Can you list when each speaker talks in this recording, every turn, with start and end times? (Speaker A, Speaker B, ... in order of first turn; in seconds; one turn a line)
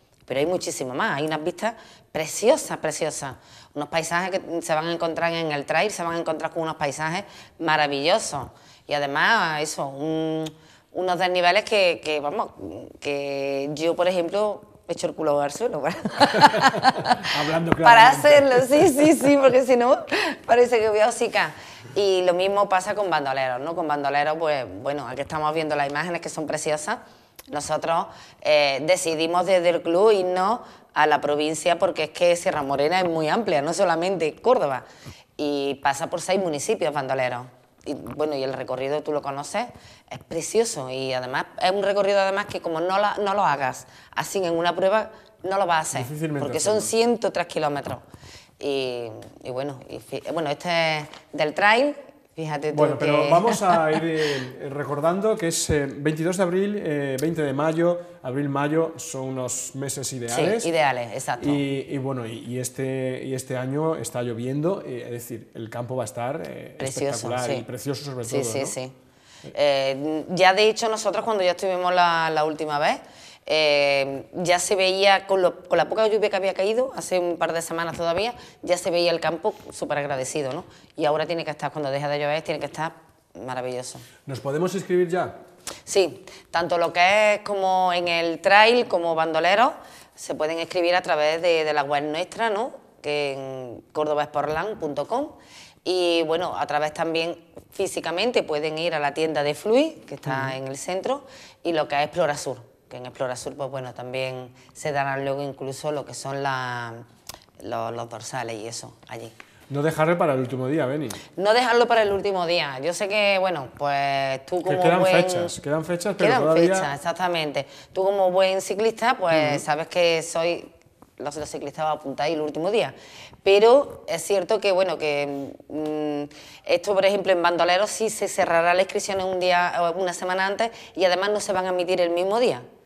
Speaker A: 0.3-34.9
Speaker B: 16.5-19.2
Speaker A: 35.4-48.0
Speaker B: 45.9-46.9
Speaker A: 48.6-54.0
Speaker B: 52.7-60.7
Speaker A: 60.3-61.6
Speaker B: 61.4-68.8
Speaker A: 66.8-67.7
Speaker A: 68.2-69.0
Speaker A: 69.5-84.1
Speaker B: 84.3-85.3
Speaker A: 85.9-95.3
Speaker A: 95.8-107.0
Speaker B: 100.3-100.6
Speaker A: 107.6-109.3
Speaker B: 109.7-111.2
Speaker A: 111.3-115.6
Speaker B: 114.6-116.9
Speaker A: 116.2-120.7
Speaker B: 119.3-119.6
Speaker A: 121.2-132.7